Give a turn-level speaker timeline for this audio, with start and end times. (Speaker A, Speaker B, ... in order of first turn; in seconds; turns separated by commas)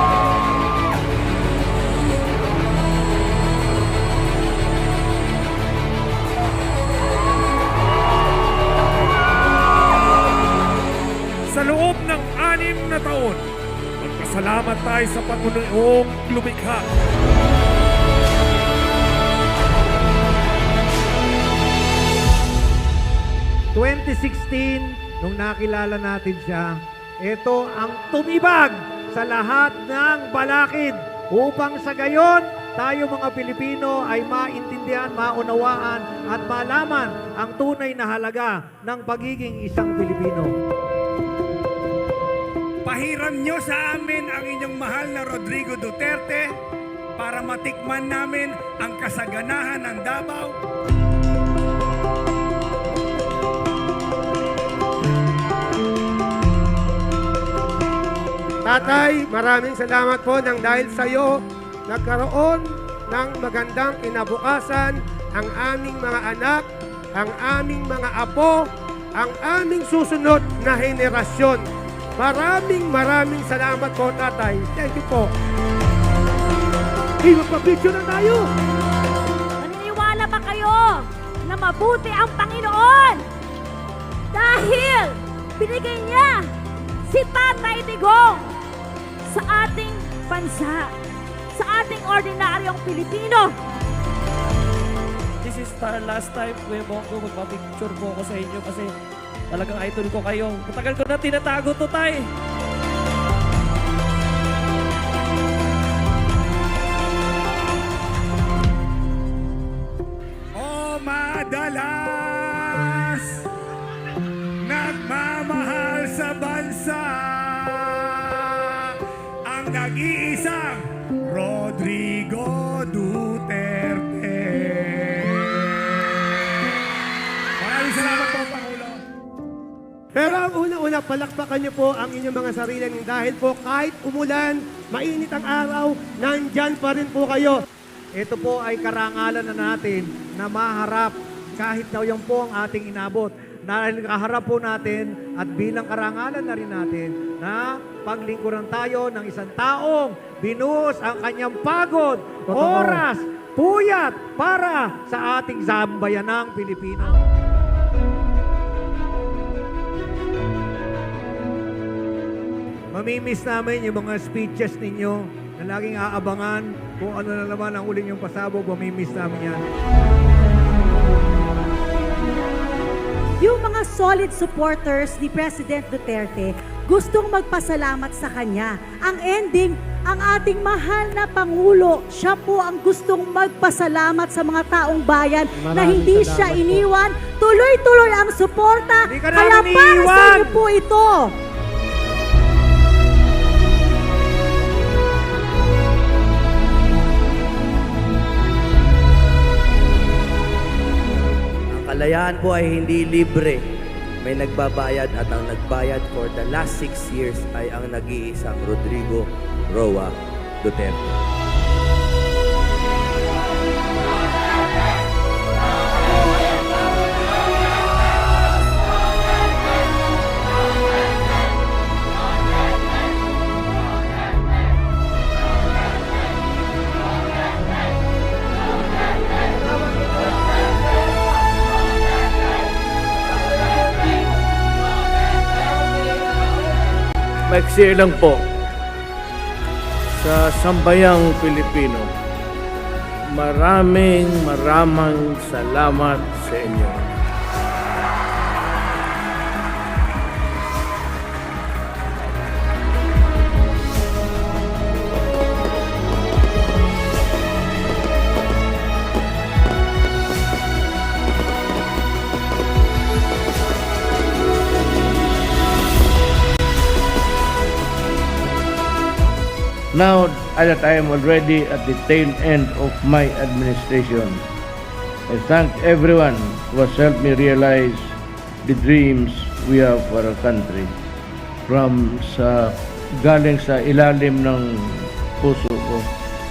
Speaker A: 11.5-13.4, Speaker A: 14.0-16.8, Speaker B: 23.7-40.5, Speaker C: 42.9-46.4, Speaker C: 47.2-50.5, Speaker D: 58.6-68.6, Speaker D: 69.1-71.7, Speaker D: 72.2-75.3, Speaker D: 77.2-78.5, Speaker E: 79.6-83.2, Speaker E: 84.3-86.4, Speaker E: 87.1-88.5, Speaker E: 89.3-90.9, Speaker E: 91.5-93.5, Speaker F: 95.4-98.9, Speaker F: 99.5-102.3, Speaker C: 110.6-113.2, Speaker C: 114.6-117.7, Speaker C: 119.5-120.8, Speaker C: 121.3-125.2, Speaker C: 127.8-128.9, Speaker D: 130.1-137.6, Speaker B: 138.2-157.2, Speaker B: 162.9-169.6, Speaker G: 173.4-191.3, Speaker B: 185.7-186.8, Speaker B: 189.1-190.6, Speaker H: 201.2-203.6, Speaker H: 204.2-211.2, Speaker I: 237.5-238.4, Speaker I: 240.2-242.1, Speaker I: 243.3-247.0, Speaker I: 269.9-274.5, Speaker I: 275.3-280.9, Speaker I: 281.7-286.1